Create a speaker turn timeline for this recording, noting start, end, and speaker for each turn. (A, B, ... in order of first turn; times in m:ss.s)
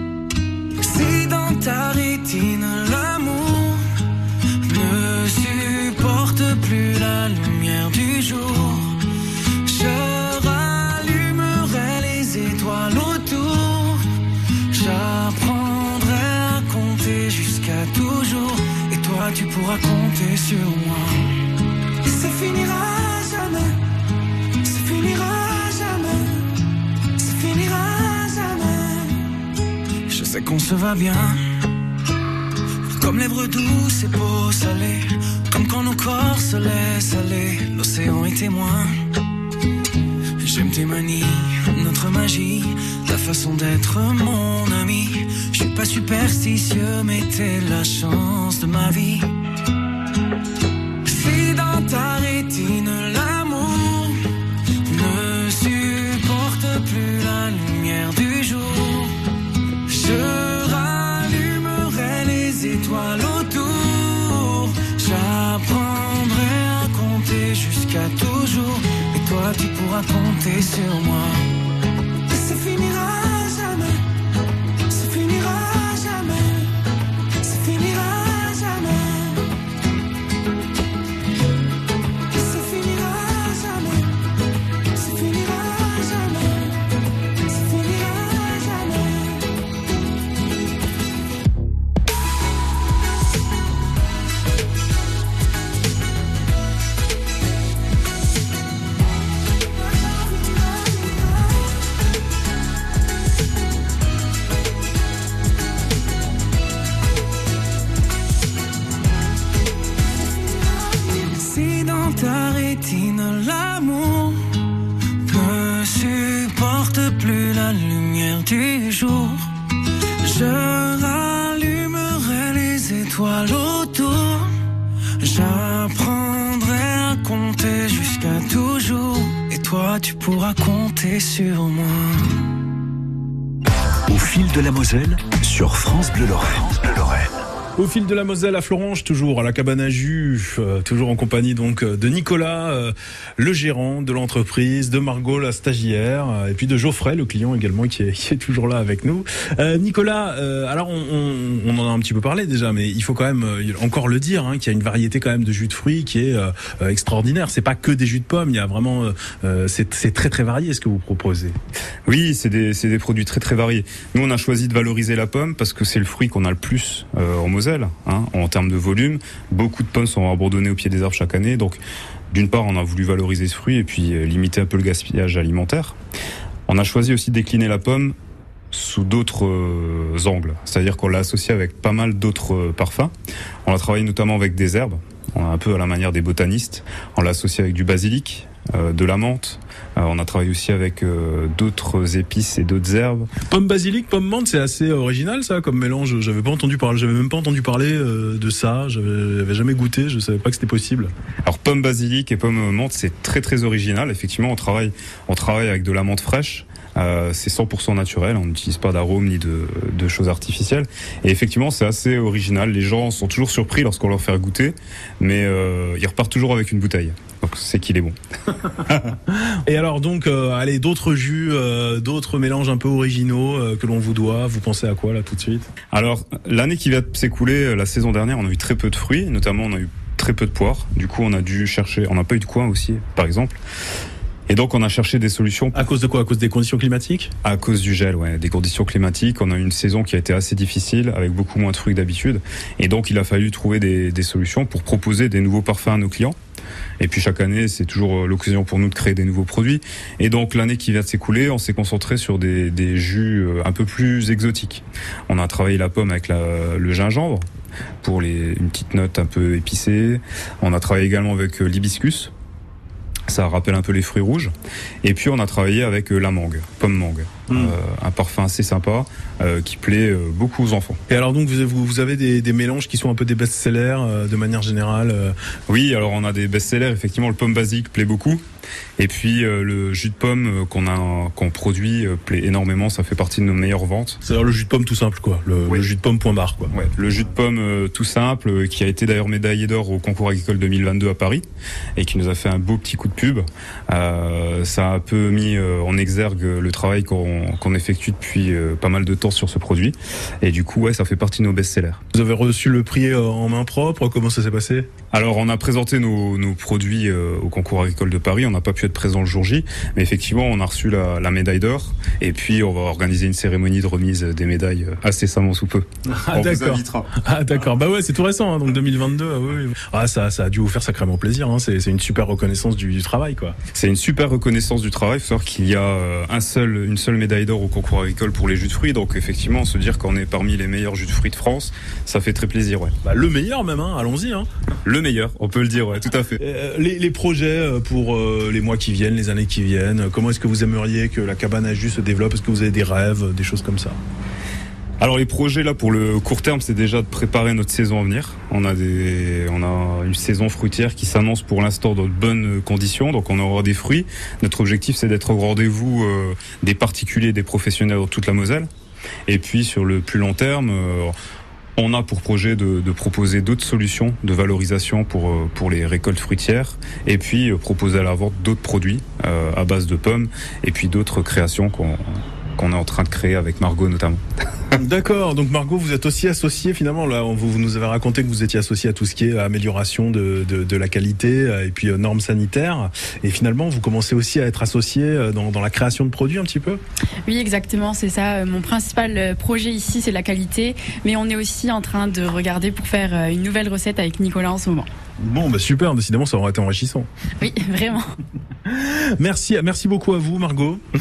0:00.8-0:03.8 A
0:04.6-0:08.9 A
0:09.6-0:14.0 A
0:14.7-0:21.2 A
0:22.0-0:23.8 A
0:24.6-0:26.4 A
0:27.2-0:29.2 A
0:30.1-0:31.4 A
0:32.9-0:39.0 A
0:40.4-0:49.3 A
0:51.0-0:54.2 A
0:54.8-0:59.1 A
0:59.9-1:11.5 A
1:12.3-1:14.0 A
1:14.9-1:16.7 A
1:17.4-1:19.4 A
1:22.3-1:24.1 A
1:24.9-1:26.7 A
1:27.5-1:29.4 A
1:50.8-1:54.4 A
1:55.2-1:59.4 A
2:00.2-2:04.5 A
2:05.2-2:12.3 A
2:14.1-2:17.3 B
2:17.8-2:41.6 C
2:42.0-2:51.8 D
2:52.3-2:56.0 D
2:56.7-2:58.1 D
2:58.7-3:03.1 D
3:03.6-3:13.3 D
3:13.5-3:21.1 C
3:21.4-3:38.1 D
3:38.7-3:39.1 D
3:39.3-3:45.7 C
3:45.9-3:53.6 D
3:54.5-3:55.8 D
3:55.7-3:57.3 C
3:57.4-4:06.4 D
4:07.0-4:17.4 D
4:18.0-4:22.3 D
4:23.3-4:24.5 D
4:25.0-4:31.0 D
4:27.5-4:27.8 C
4:31.1-4:35.3 C
4:35.7-4:38.4 D
4:39.0-4:44.2 D
4:44.2-4:46.7 C
4:46.7-4:51.4 D
4:52.0-5:02.0 D
5:02.1-5:04.9 C
5:05.1-5:17.1 D
5:16.1-5:23.6 C
5:23.7-5:32.9 D
5:33.0-5:34.5 C
5:34.8-5:36.4 D
5:36.4-5:44.0 C
5:45.0-5:58.7 D
5:59.3-6:01.1 D
6:01.8-6:14.2 D
6:14.7-6:26.8 C
6:27.2-6:34.9 E
6:35.2-6:37.1 C
6:37.4-6:38.1 E
6:38.7-6:40.8 C